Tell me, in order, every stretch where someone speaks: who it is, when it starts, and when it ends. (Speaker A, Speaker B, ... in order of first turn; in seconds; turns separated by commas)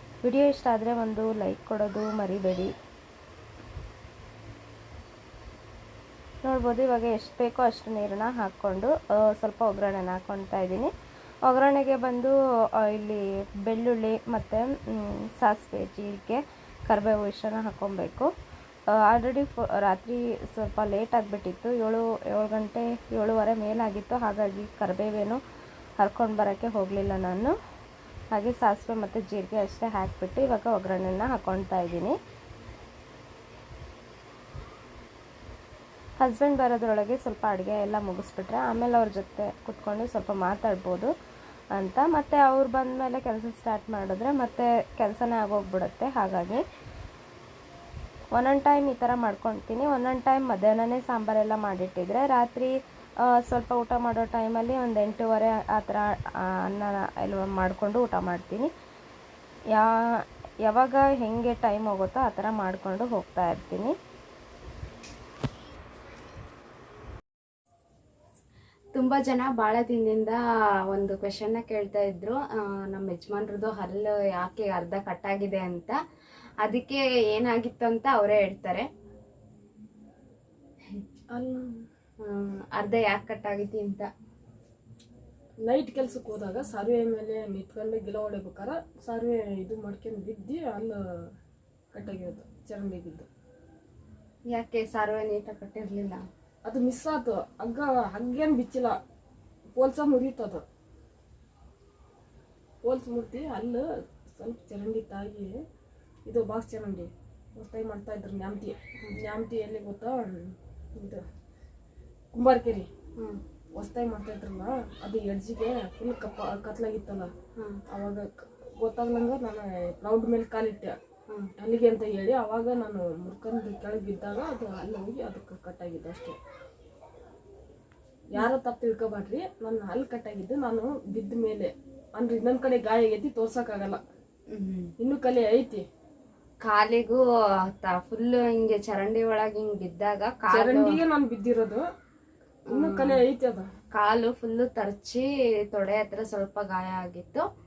Speaker A: 0.2-2.7, Speaker A: 6.4-10.9, Speaker A: 11.5-18.3, Speaker A: 18.9-25.4, Speaker A: 26.0-27.5, Speaker A: 28.3-32.2, Speaker A: 36.2-41.1, Speaker A: 41.7-46.6, Speaker A: 48.3-52.7, Speaker A: 53.3-58.7, Speaker A: 60.7-64.0, Speaker B: 69.0-70.4, Speaker B: 70.9-75.9, Speaker B: 76.6-78.8, Speaker C: 81.3-81.8, Speaker B: 82.2-84.1, Speaker C: 85.6-91.0, Speaker C: 91.9-93.3, Speaker B: 94.5-96.2, Speaker A: 94.7-96.0, Speaker C: 96.7-99.0, Speaker C: 99.8-100.6, Speaker C: 102.8-103.8, Speaker C: 104.3-105.5, Speaker C: 106.3-111.2, Speaker C: 112.3-112.9, Speaker C: 113.8-117.3, Speaker C: 117.9-121.0, Speaker C: 121.6-126.4, Speaker C: 128.3-134.0, Speaker B: 134.5-134.9, Speaker C: 135.0-135.8, Speaker B: 136.7-137.2, Speaker A: 136.8-137.2, Speaker B: 137.8-140.0, Speaker A: 138.2-140.4, Speaker C: 140.5-141.8, Speaker B: 140.7-141.0, Speaker C: 142.7-143.7, Speaker B: 142.8-143.2, Speaker A: 144.0-147.4, Speaker B: 146.1-147.2